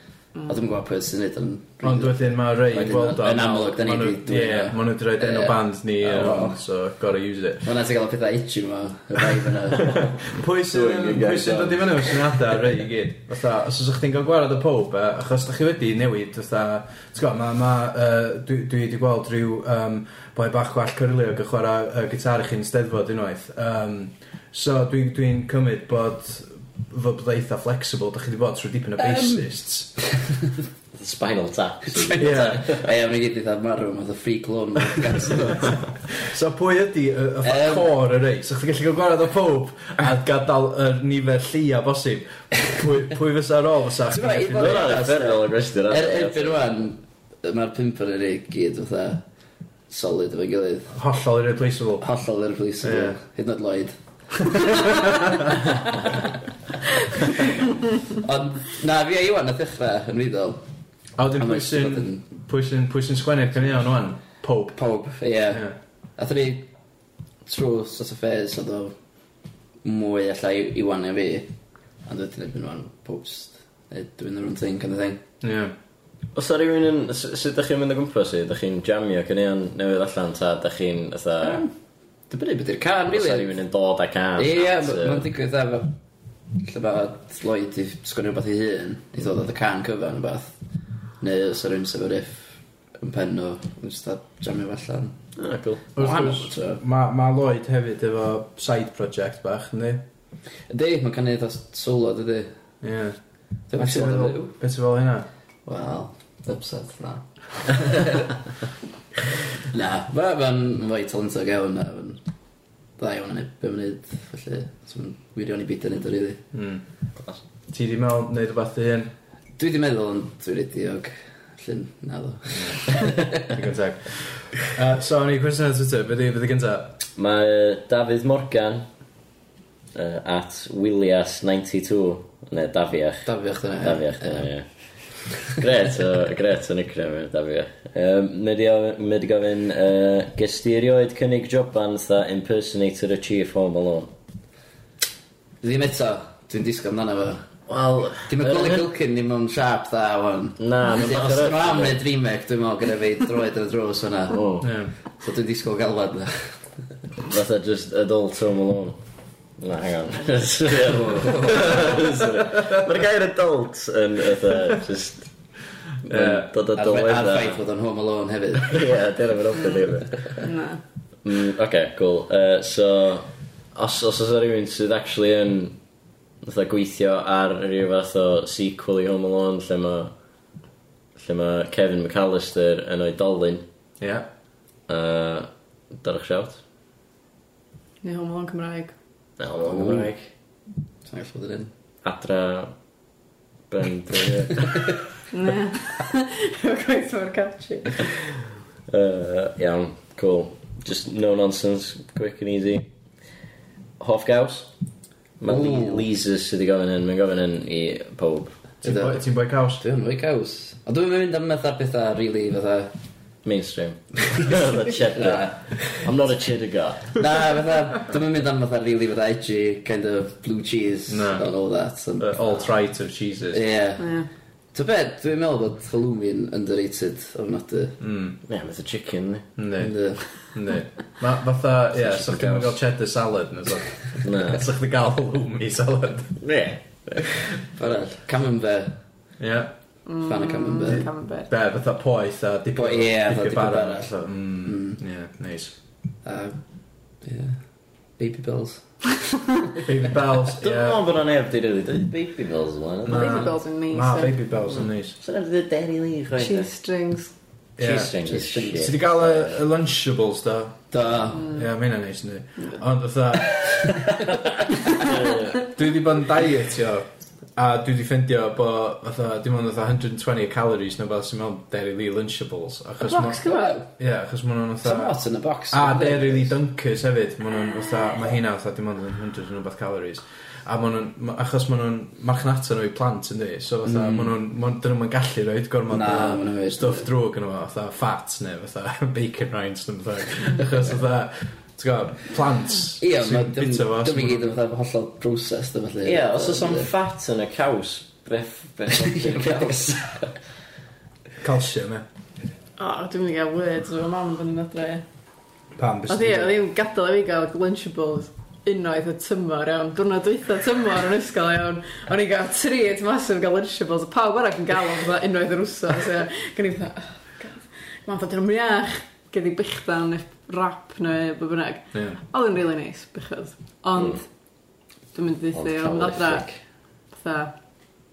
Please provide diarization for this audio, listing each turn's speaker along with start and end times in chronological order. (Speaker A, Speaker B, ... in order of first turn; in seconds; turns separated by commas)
Speaker A: 0.5-6.6, Speaker B: 1.8-7.7, Speaker A: 7.6-9.9, Speaker C: 9.8-12.6, Speaker B: 10.3-29.9, Speaker A: 29.0-29.5, Speaker C: 31.0-32.9, Speaker A: 31.9-35.9, Speaker B: 32.2-32.6, Speaker B: 35.6-44.9, Speaker A: 37.4-37.9, Speaker A: 44.1-49.2, Speaker C: 44.5-46.6, Speaker A: 49.9-51.0, Speaker B: 50.9-52.0, Speaker A: 52.0-56.3, Speaker B: 52.8-53.2, Speaker B: 54.6-55.5, Speaker A: 58.1-60.6, Speaker B: 61.2-64.8, Speaker A: 61.4-62.2, Speaker A: 64.8-66.7, Speaker A: 67.5-69.0, Speaker A: 69.8-71.5, Speaker A: 72.1-75.2, Speaker B: 75.4-75.7, Speaker C: 76.3-81.6, Speaker A: 81.4-81.7, Speaker A: 82.3-83.5, Speaker C: 83.1-85.3, Speaker A: 84.4-86.0, Speaker A: 86.6-90.5, Speaker A: 91.2-95.2, Speaker C: 95.4-95.8, Speaker A: 96.0-96.8, Speaker B: 96.0-100.0, Speaker A: 100.7-102.5, Speaker B: 102.8-103.2, Speaker A: 103.7-104.6, Speaker B: 103.8-105.3, Speaker A: 105.7-108.4, Speaker A: 109.7-112.2, Speaker A: 113.0-116.4, Speaker B: 116.5-116.8, Speaker B: 117.7-119.1, Speaker A: 119.6-123.5, Speaker B: 123.5-127.0, Speaker C: 127.2-128.8, Speaker C: 129.9-144.1, Speaker A: 133.2-134.5, Speaker A: 145.6-147.5, Speaker C: 147.7-148.9, Speaker A: 148.3-154.4, Speaker C: 150.6-152.0, Speaker C: 154.3-154.7, Speaker B: 154.6-154.9, Speaker A: 155.1-156.6, Speaker C: 157.3-159.0, Speaker C: 159.6-165.3, Speaker A: 160.8-161.9, Speaker C: 166.1-167.6, Speaker B: 166.1-166.5, Speaker A: 166.7-168.8, Speaker C: 168.7-170.4, Speaker D: 170.4-170.8, Speaker C: 171.2-175.8, Speaker C: 176.4-180.1, Speaker C: 181.2-183.6, Speaker B: 184.0-184.3, Speaker C: 184.9-186.6, Speaker D: 188.0-188.9, Speaker C: 189.4-190.2, Speaker A: 189.6-190.1, Speaker A: 191.1-191.7, Speaker C: 192.0-192.7, Speaker C: 193.7-195.0, Speaker D: 195.3-198.1, Speaker C: 198.9-202.9, Speaker C: 204.0-204.7, Speaker C: 205.4-208.6, Speaker A: 205.4-206.1, Speaker B: 208.8-209.8, Speaker A: 208.8-212.9, Speaker C: 213.4-217.2, Speaker A: 214.3-216.0, Speaker A: 217.2-222.7, Speaker B: 221.1-221.5, Speaker B: 222.2-223.6, Speaker A: 223.5-224.2, Speaker D: 224.0-224.3, Speaker A: 224.7-228.0, Speaker B: 228.0-228.4, Speaker C: 228.5-229.5, Speaker B: 229.6-236.4, Speaker A: 229.8-230.2, Speaker C: 232.0-232.8, Speaker C: 234.2-234.6, Speaker C: 236.4-237.2, Speaker A: 237.8-239.0, Speaker B: 239.4-239.7, Speaker D: 240.1-241.5, Speaker A: 240.2-241.1, Speaker B: 240.9-245.8, Speaker A: 242.8-244.1, Speaker A: 244.7-245.0, Speaker A: 246.2-246.6, Speaker A: 247.2-247.6, Speaker A: 248.2-248.8, Speaker B: 249.8-251.0, Speaker C: 250.6-253.5, Speaker B: 253.1-255.2, Speaker D: 253.1-254.4, Speaker C: 254.8-256.7, Speaker D: 256.4-257.3, Speaker B: 257.8-258.1, Speaker C: 257.8-259.5, Speaker A: 258.2-258.9, Speaker B: 258.7-264.1, Speaker A: 260.9-261.5, Speaker C: 264.1-265.7, Speaker B: 265.6-275.2, Speaker D: 273.0-273.8, Speaker A: 273.4-273.9, Speaker A: 274.8-276.5, Speaker B: 275.7-294.5, Speaker A: 283.9-284.3, Speaker A: 285.9-287.1, Speaker A: 293.0-296.9, Speaker C: 296.0-300.0, Speaker A: 298.9-300.3, Speaker B: 301.4-302.1, Speaker D: 302.8-305.0, Speaker B: 305.8-306.5, Speaker D: 306.1-324.3, Speaker C: 324.0-324.2, Speaker D: 325.1-326.5, Speaker C: 325.5-326.6, Speaker D: 327.1-327.6